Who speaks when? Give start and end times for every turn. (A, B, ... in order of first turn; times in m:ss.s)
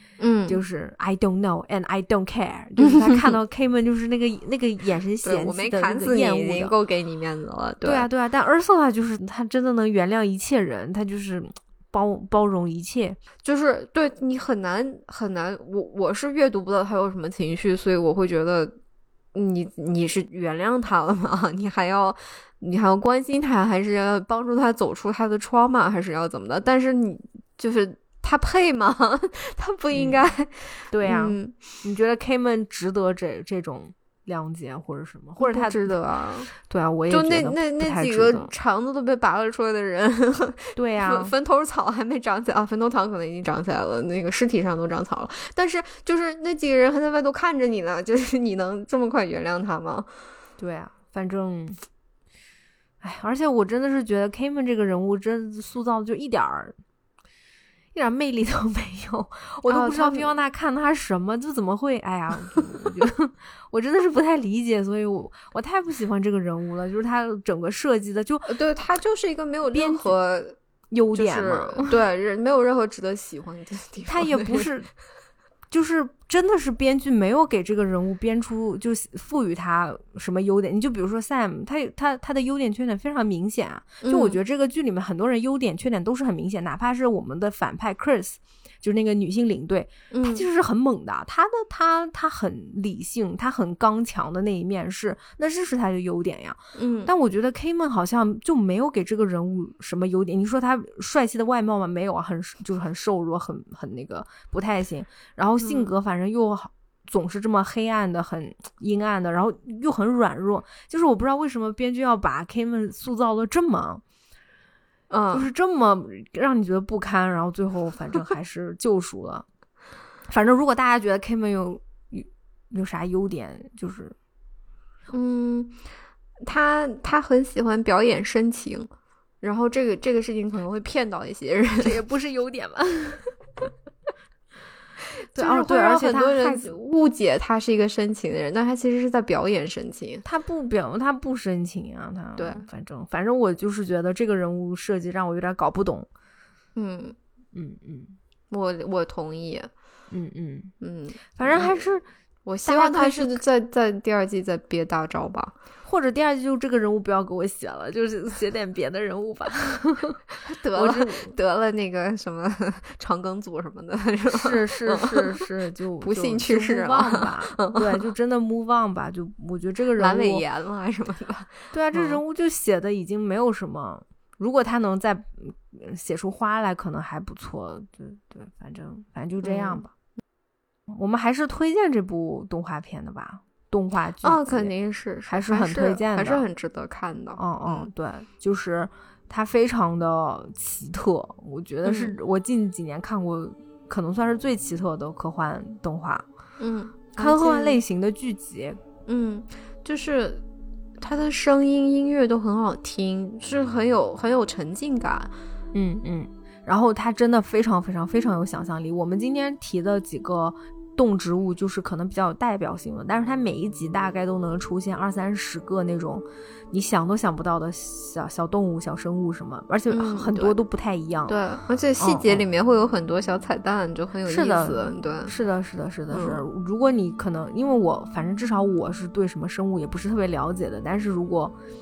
0:00.2-0:00.6 A
0:00.5-0:06.7 B
0:02.8-0:03.3 A
0:05.2-0:08.1 A
0:07.8-0:13.2 B
0:13.4-0:18.8 A
0:19.3-0:31.6 A
0:29.9-0:30.2 B
0:30.9-0:36.0 B
0:35.4-0:36.5 A
0:36.5-0:38.5 B
0:37.1-0:50.1 A
0:40.8-0:41.3 B
0:50.6-0:51.8 B
0:53.0-0:56.8 B
0:57.9-1:08.6 B
0:59.6-1:00.3 A
1:08.5-1:10.6 A
1:09.7-1:10.1 B
1:10.9-1:11.9 B
1:11.1-1:14.7 A
1:14.1-1:14.9 B
1:15.7-1:54.0 B
1:24.0-1:24.4 A
1:30.1-1:30.5 A
1:36.8-1:37.1 A
1:45.6-1:45.9 A
1:55.1-1:55.5 A
1:55.3-1:59.5 B
2:00.3-2:04.2 B
2:05.1-2:05.8 A
2:06.4-2:08.9 A
2:09.4-2:12.0 A
2:11.8-2:13.7 B
2:15.4-2:16.8 B
2:15.4-2:20.2 A
2:20.2-2:26.1 B
2:22.4-2:22.7 A
2:26.8-2:27.2 A
2:27.5-2:28.2 B
2:28.5-2:29.7 A
2:30.1-2:30.7 B
2:30.8-2:31.9 A
2:31.4-2:32.1 B
2:32.5-2:35.5 A
2:32.6-2:33.4 B
2:35.8-2:41.3 B
2:40.4-2:45.4 A
2:44.3-2:50.4 B
2:46.0-2:48.0 A
2:50.0-2:52.2 A
2:51.7-2:59.9 B
2:59.4-2:59.9 A
3:00.9-3:04.7 B
3:04.2-3:07.9 A
3:05.3-3:06.4 B
3:07.4-3:16.3 B
3:11.8-3:12.1 A
3:16.6-3:17.8 A
3:17.2-3:18.8 B
3:19.1-3:20.4 A
3:21.0-3:25.3 A
3:25.7-3:41.4 B
3:39.9-3:40.6 A
3:41.3-3:45.3 A
3:42.0-3:42.4 B
3:44.3-3:51.6 B
3:46.1-3:46.4 A